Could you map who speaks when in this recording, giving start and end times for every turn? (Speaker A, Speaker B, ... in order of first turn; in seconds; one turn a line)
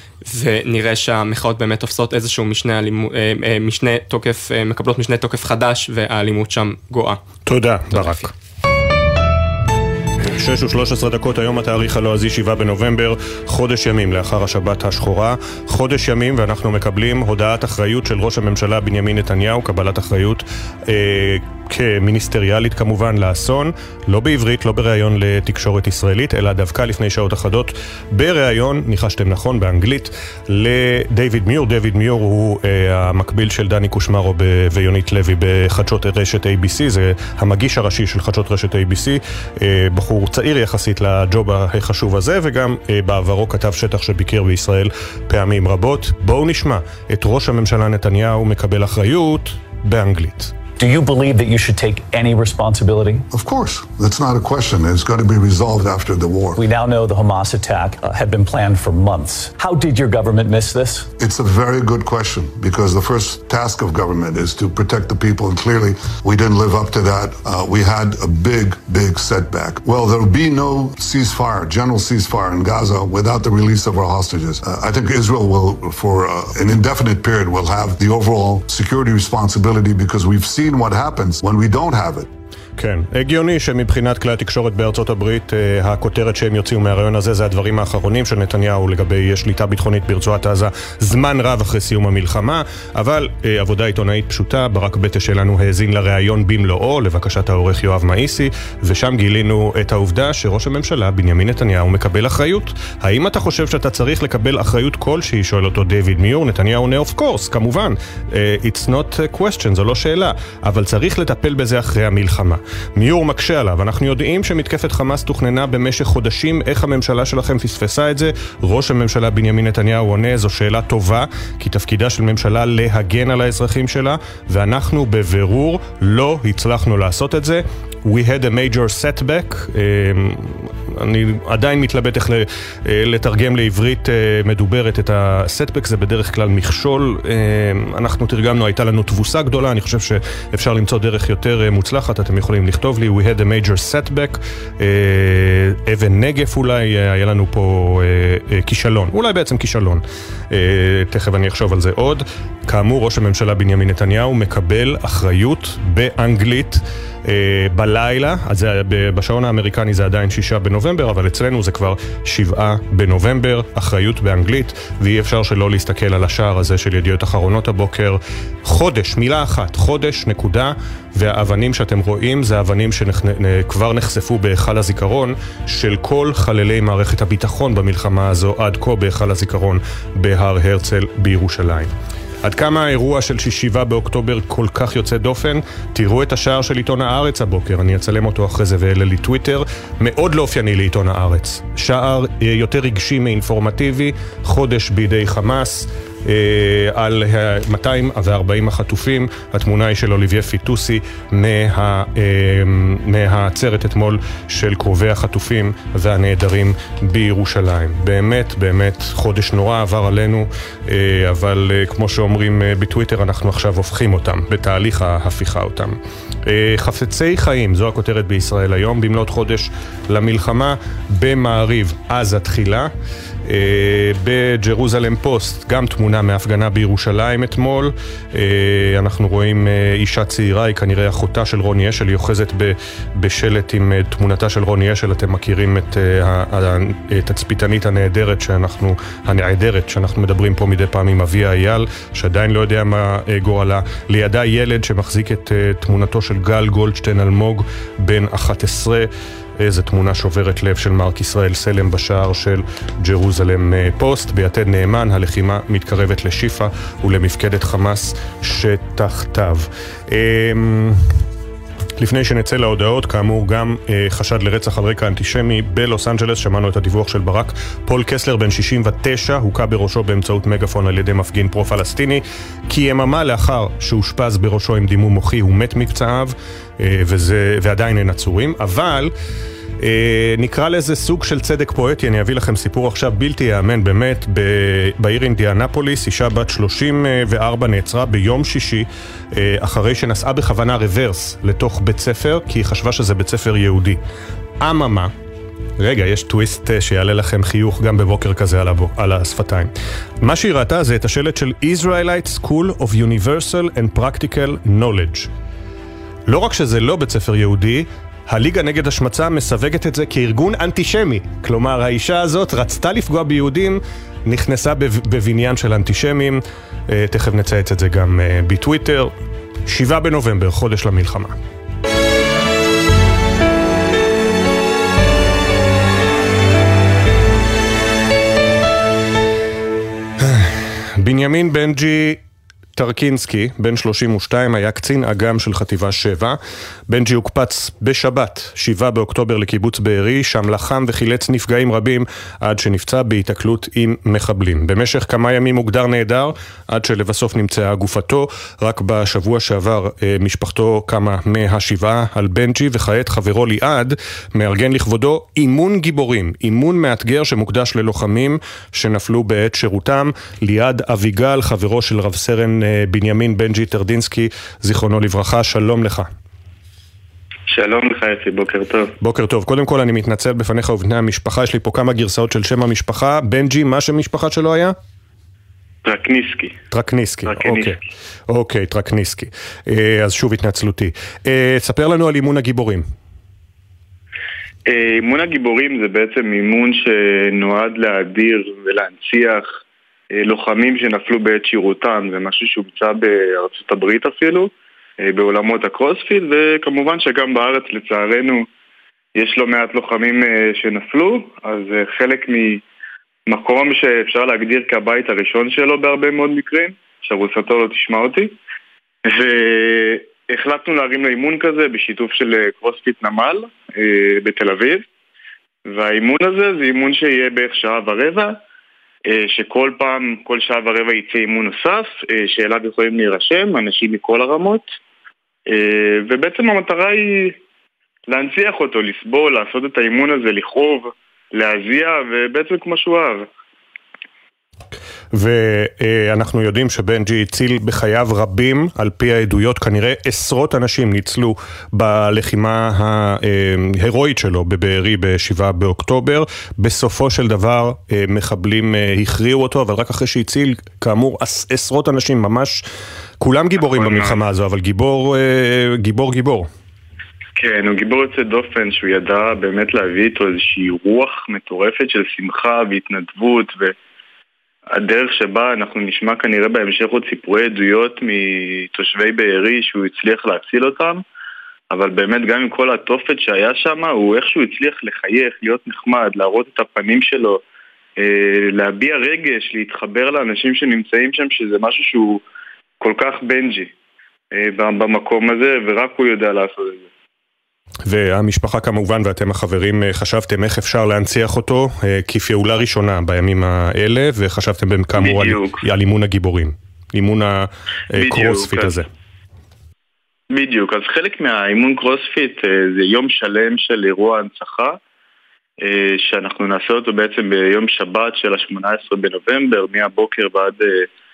Speaker A: 0.3-7.2
Speaker B: 7.5-8.3
Speaker A: 7.9-8.3
Speaker B: 10.3-50.5
Speaker C: 50.8-53.3
Speaker D: 53.3-56.6
Speaker C: 56.6-61.1
Speaker D: 61.2-82.3
Speaker B: 82.8-181.9
Speaker B: 182.4-222.9
Speaker B: 223.5-249.1
Speaker B: 249.6-261.0
Speaker B: 262.0-279.1
Speaker B: 279.8-294.0
Speaker B: 294.6-295.1
Speaker B: 295.8-299.7
Speaker B: 300.2-305.3
Speaker B: 306.3-319.1
Speaker B: 319.7-321.3
Speaker B: 330.2-332.2
Speaker B: 332.8-336.4
Speaker B: 336.9-366.1
Speaker E: 367.5-368.9
Speaker B: 369.0-374.8
Speaker E: 375.9-376.6
Speaker B: 376.7-377.8
Speaker E: 377.3-377.8
Speaker B: 378.3-382.9
Speaker E: 384.7-389.5
Speaker E: 390.1-394.5
Speaker E: 395.0-398.5
Speaker E: 399.2-402.6
Speaker E: 403.3-408.4
Speaker E: 409.1-414.8
Speaker E: 415.7-418.4
Speaker E: 419.1-424.7
Speaker E: 425.5-427.4
Speaker E: 428.1-433.3
Speaker B: 435.1-452.6
Speaker B: 453.2-456.5
Speaker E: 453.7-454.2
Speaker E: 457.4-463.8
Speaker E: 464.7-471.0
Speaker E: 471.7-477.4
Speaker E: 478.0-482.2
Speaker E: 482.8-483.7
Speaker E: 484.4-486.9
Speaker B: 487.9-498.9
Speaker E: 495.0-495.6
Speaker E: 498.0-498.8
Speaker E: 500.3-504.8
Speaker E: 505.6-510.9